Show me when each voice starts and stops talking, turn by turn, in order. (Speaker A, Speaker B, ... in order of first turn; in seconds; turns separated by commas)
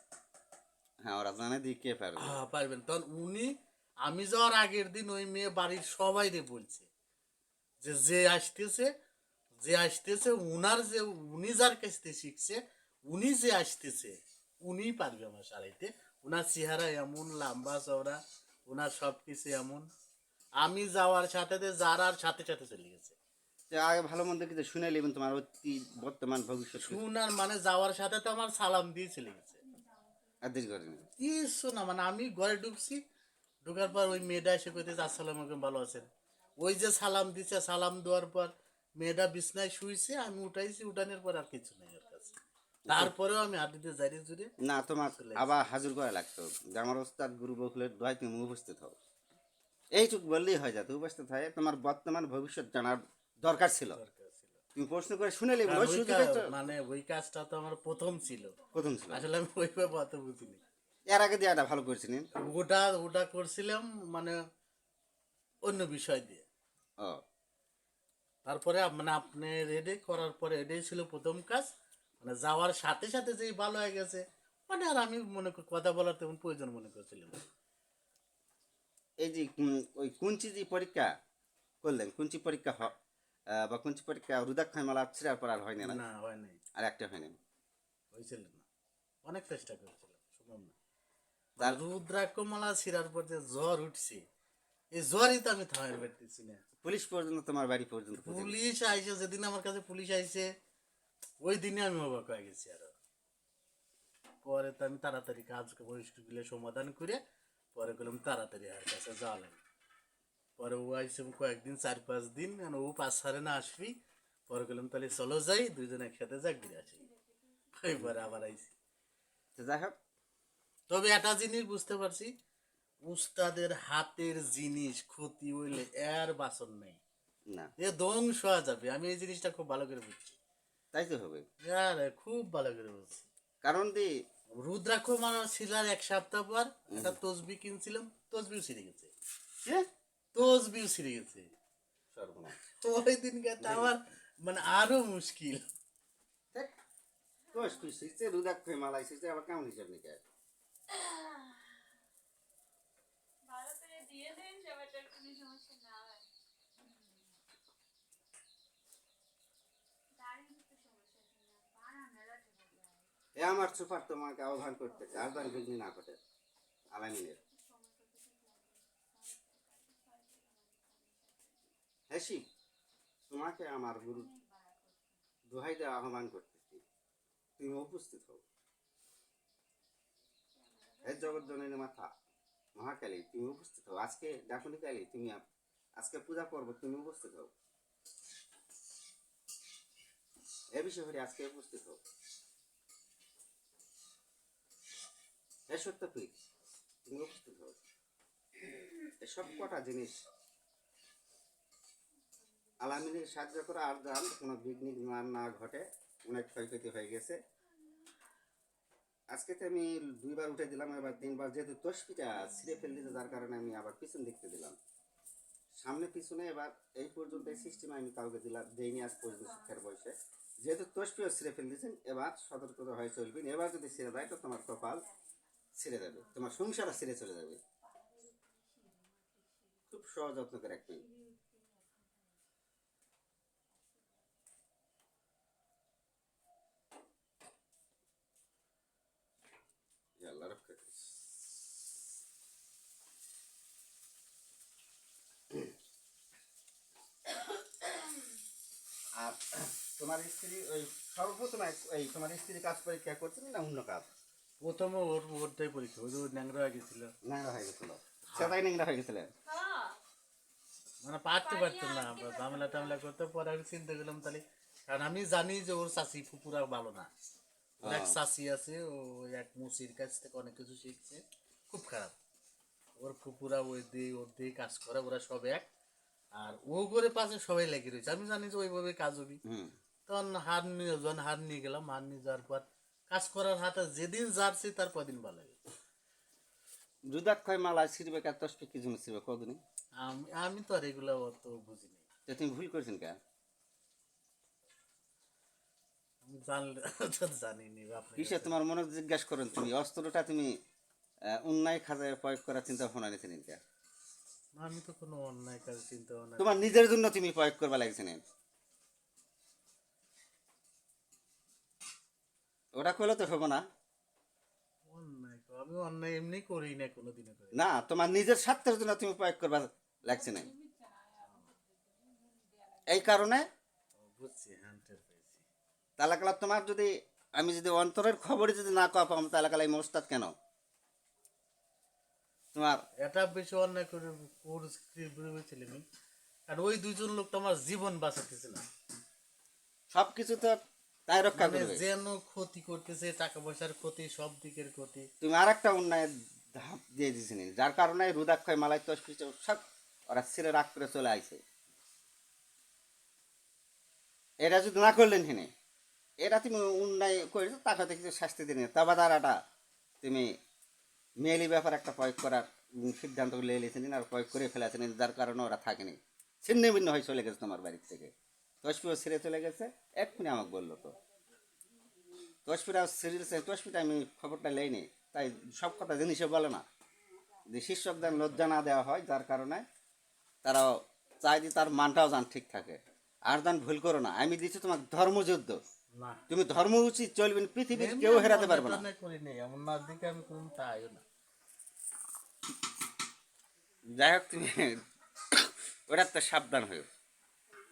Speaker A: 1.0-2.4, Speaker B: 2.2-6.9, Speaker B: 7.8-8.9, Speaker B: 9.6-19.9, Speaker B: 20.6-23.1, Speaker A: 23.7-27.0, Speaker B: 26.7-29.6, Speaker A: 30.4-31.1, Speaker B: 31.1-33.0, Speaker B: 33.6-36.1, Speaker B: 36.6-42.3, Speaker A: 42.9-43.1, Speaker B: 42.9-44.5, Speaker A: 44.6-49.0, Speaker B: 45.2-45.5, Speaker A: 49.9-54.0, Speaker B: 54.0-54.6, Speaker A: 54.7-56.5, Speaker B: 55.6-60.6, Speaker A: 58.7-59.2, Speaker A: 61.0-62.3, Speaker B: 62.3-64.4, Speaker B: 65.6-66.4, Speaker B: 68.4-77.5, Speaker A: 79.2-81.1, Speaker A: 81.8-82.9, Speaker A: 83.5-86.0, Speaker B: 85.8-86.6, Speaker A: 86.8-87.3, Speaker B: 88.1-88.6, Speaker B: 89.2-90.7, Speaker B: 91.6-94.2, Speaker B: 94.9-96.6, Speaker A: 96.8-98.5, Speaker B: 98.2-100.5, Speaker B: 101.4-102.9, Speaker B: 104.4-107.2, Speaker B: 107.7-109.6, Speaker B: 110.6-113.9, Speaker B: 114.5-117.1, Speaker B: 117.7-118.7, Speaker A: 119.5-120.0, Speaker B: 120.9-122.3, Speaker B: 123.0-127.0, Speaker B: 127.8-130.4, Speaker A: 130.9-131.4, Speaker B: 131.6-133.2, Speaker A: 133.6-134.2, Speaker B: 134.5-139.1, Speaker A: 136.9-137.2, Speaker B: 140.3-141.5, Speaker A: 142.1-142.5, Speaker B: 142.6-145.6, Speaker A: 143.6-143.9, Speaker A: 147.5-150.2, Speaker C: 150.9-151.6, Speaker C: 153.4-156.2, Speaker C: 156.8-157.1, Speaker C: 160.1-163.1, Speaker A: 163.3-166.2, Speaker A: 166.9-167.4, Speaker C: 167.4-171.7, Speaker A: 172.1-172.4, Speaker A: 173.3-174.3, Speaker C: 174.1-175.2, Speaker A: 175.5-176.8, Speaker A: 177.6-178.4, Speaker C: 180.5-181.6, Speaker A: 181.0-182.1, Speaker A: 182.8-185.4, Speaker A: 186.0-187.5, Speaker A: 190.7-192.0, Speaker A: 195.7-196.3, Speaker A: 197.1-197.8, Speaker A: 199.2-200.1, Speaker A: 202.8-207.4, Speaker A: 209.3-214.8, Speaker A: 215.8-225.0, Speaker A: 225.8-227.6, Speaker C: 227.8-229.8, Speaker A: 229.9-231.1, Speaker C: 230.9-232.3, Speaker C: 233.7-234.2, Speaker A: 240.2-241.1, Speaker A: 249.1-254.1, Speaker B: 254.6-257.1, Speaker A: 257.2-259.3, Speaker B: 258.3-258.6, Speaker C: 259.4-260.0, Speaker B: 261.0-267.1, Speaker C: 261.6-262.9, Speaker A: 267.8-268.2, Speaker B: 267.8-272.1, Speaker B: 273.0-275.6, Speaker B: 276.4-279.4, Speaker A: 279.4-279.7, Speaker B: 280.1-285.6, Speaker A: 287.1-289.6, Speaker B: 290.0-292.1, Speaker A: 292.3-293.2, Speaker B: 296.2-298.5, Speaker A: 298.2-300.6, Speaker A: 301.2-303.6, Speaker B: 304.6-306.8, Speaker A: 306.4-308.2, Speaker A: 312.7-313.6, Speaker B: 314.8-317.5, Speaker A: 317.5-320.5, Speaker C: 320.6-322.9, Speaker A: 322.9-323.5, Speaker B: 324.0-325.4, Speaker A: 326.0-330.3, Speaker A: 332.5-332.8, Speaker B: 333.0-335.8, Speaker B: 336.5-338.6, Speaker A: 339.9-341.8, Speaker B: 341.3-345.1, Speaker A: 345.2-351.4, Speaker A: 354.4-355.5, Speaker A: 356.2-359.4, Speaker A: 360.0-360.4, Speaker A: 361.2-370.9, Speaker A: 372.4-376.6, Speaker A: 377.5-379.6, Speaker A: 380.4-385.6, Speaker B: 385.9-386.2, Speaker A: 386.3-388.8, Speaker B: 387.7-391.0, Speaker A: 393.9-396.9